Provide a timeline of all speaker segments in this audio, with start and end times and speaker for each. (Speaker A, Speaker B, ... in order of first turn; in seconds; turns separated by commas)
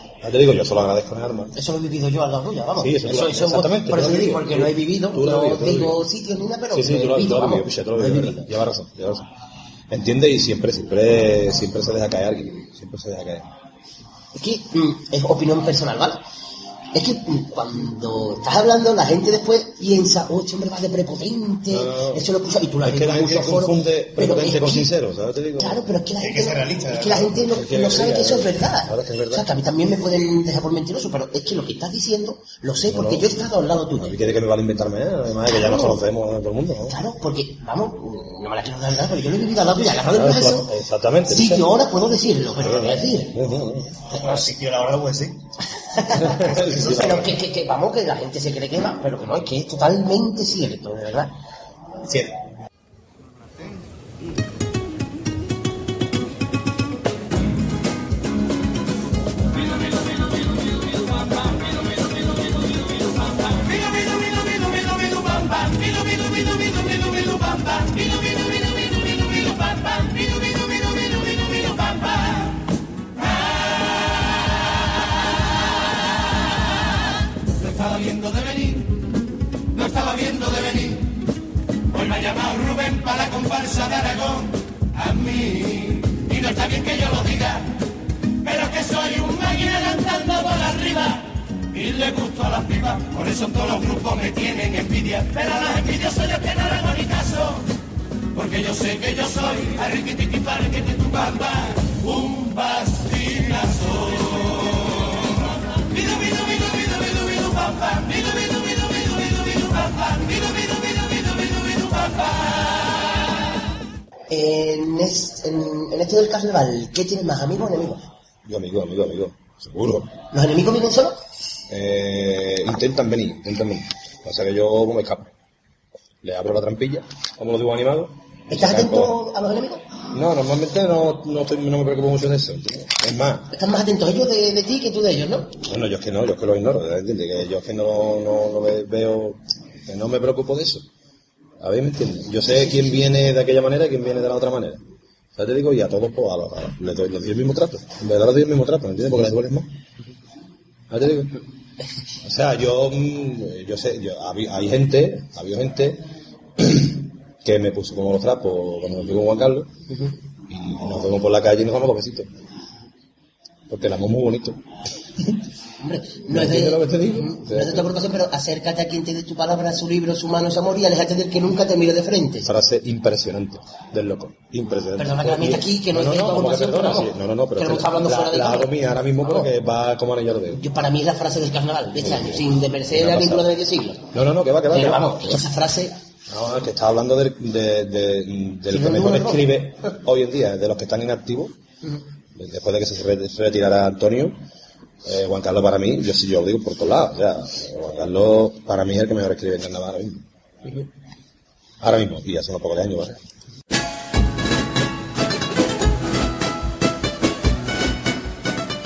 Speaker A: 0.2-1.5, Speaker B: 1.6-8.5, Speaker A: 2.8-6.0, Speaker A: 6.7-9.3, Speaker A: 9.9-13.5, Speaker B: 14.3-16.2, Speaker B: 16.9-24.9, Speaker A: 21.7-22.3, Speaker A: 22.8-25.8, Speaker B: 25.6-34.1, Speaker C: 26.2-27.4, Speaker A: 27.5-29.5, Speaker A: 32.8-33.3, Speaker A: 34.0-37.0, Speaker B: 35.5-36.0, Speaker B: 36.9-40.7, Speaker A: 40.0-41.7, Speaker B: 41.3-43.4, Speaker A: 42.6-44.1, Speaker C: 44.1-45.4, Speaker B: 45.8-51.3, Speaker A: 46.1-47.3, Speaker C: 46.2-47.1, Speaker C: 52.1-52.3, Speaker D: 63.4-72.6, Speaker D: 73.2-74.1, Speaker D: 77.6-78.9, Speaker D: 79.7-81.1, Speaker D: 81.9-87.7, Speaker D: 88.4-97.7, Speaker D: 98.3-104.7, Speaker D: 105.9-112.7, Speaker B: 114.3-118.1, Speaker A: 118.5-120.2, Speaker B: 120.3-121.2, Speaker A: 121.7-125.3, Speaker A: 126.2-129.2, Speaker B: 128.5-129.8, Speaker A: 130.1-133.5, Speaker B: 133.5-135.6, Speaker A: 135.7-140.9, Speaker A: 141.6-144.8, Speaker A: 145.4-149.7, Speaker A: 150.9-151.4, Speaker A: 152.2-159.7, Speaker A: 160.5-162.3, Speaker A: 163.7-164.6, Speaker A: 165.2-165.4, Speaker B: 165.8-172.5, Speaker A: 166.3-167.9, Speaker A: 172.4-180.6, Speaker B: 175.0-179.5, Speaker B: 180.5-184.1, Speaker A: 181.9-183.5, Speaker A: 184.1-185.4, Speaker B: 184.7-186.0, Speaker A: 186.3-191.6, Speaker B: 188.7-189.5, Speaker A: 192.3-194.4, Speaker A: 195.0-200.9, Speaker A: 201.8-203.2